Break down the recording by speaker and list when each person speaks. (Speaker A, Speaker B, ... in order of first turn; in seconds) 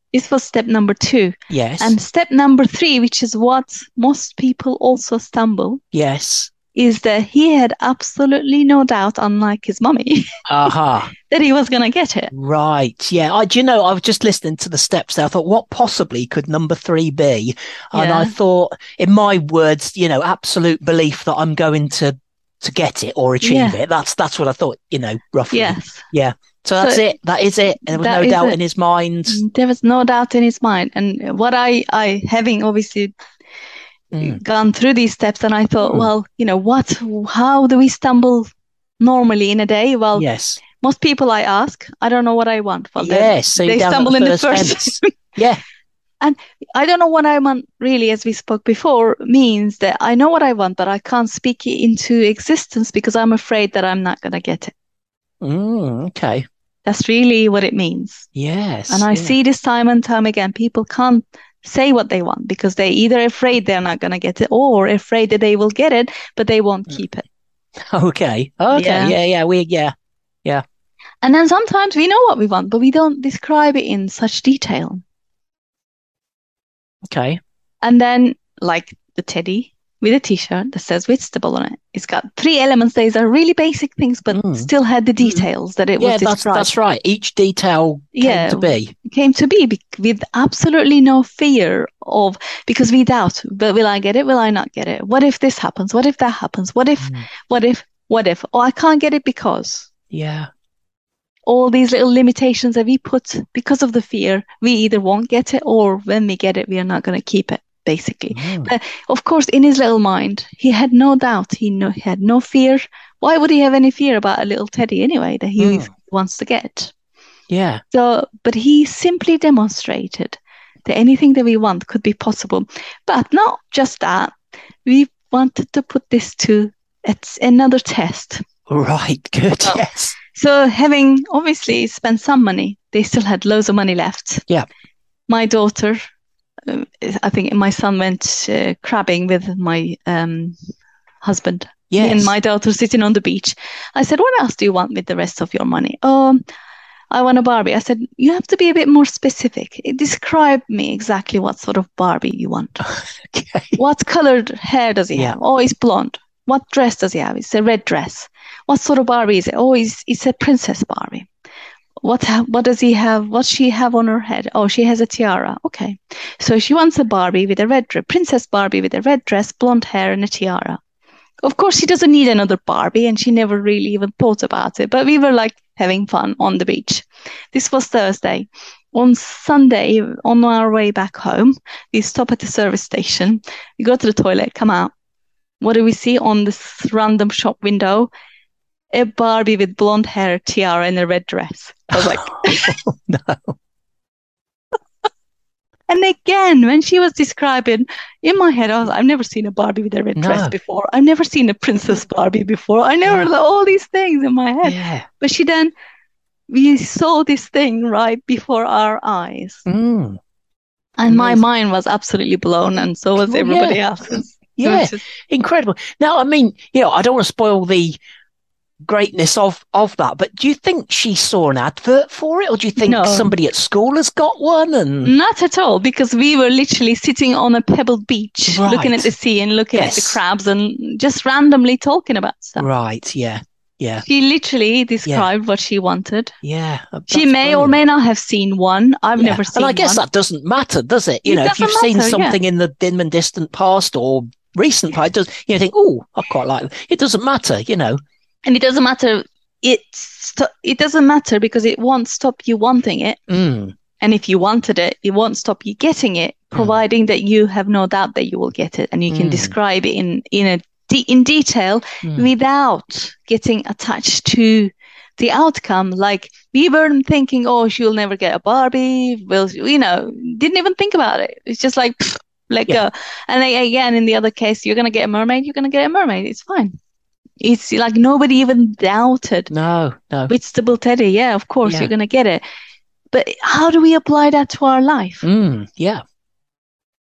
Speaker A: 0.1-5.8, 6.7-10.3, 11.3-12.3, 17.9-18.3, 23.4-23.8, 25.5-26.0, 26.8-27.1, 27.9-28.6, 29.3-33.1, 34.3-40.2, 40.8-45.0, 46.2-54.7, 56.8-58.2, 58.9-67.2, 68.7-69.1, 71.2-75.0, 77.8-86.7, 88.1-99.9, 101.5-116.9, 117.9-128.4, 130.3-134.4, 135.3-136.0, 136.7-140.6, 141.2-146.4, 147.1-152.9, 153.8-161.3, 162.0-170.8, 171.4-184.9, 185.6-188.1, 188.9-192.6, 195.9-205.7, 206.5-209.6, 211.0-215.0, 222.8-223.3, 225.0-232.7, 234.0-236.3, 237.1-240.0, 241.2-242.4, 248.4-253.2, 254.0-276.7, 277.4-279.5, 280.3-282.4, 283.1-285.2
Speaker B: 1.5-1.9, 5.9-6.5, 10.5-11.1, 12.3-29.4, 34.1-34.4, 35.8-36.1, 40.1-40.6, 43.0-45.6, 55.4-56.4, 58.3-59.4, 67.9-69.9, 77.0-77.4, 84.3-85.5, 86.0-88.9, 97.0-97.3, 100.1-100.5, 108.3-108.7, 115.6-115.9, 117.5-117.8, 128.7-130.2, 141.9-142.3, 152.8-153.8, 191.9-193.6, 200.2-200.5, 203.0-203.3, 204.6-205.1, 209.7-210.2, 211.1-211.4, 213.2-218.0, 218.8-225.1, 228.5-229.1, 229.7-230.2, 232.6-234.0, 236.4-237.8, 239.2-248.0, 253.3-253.7, 256.5-256.8, 259.1-259.5, 262.0-262.3, 279.5-280.3, 281.6-281.9, 285.2-286.0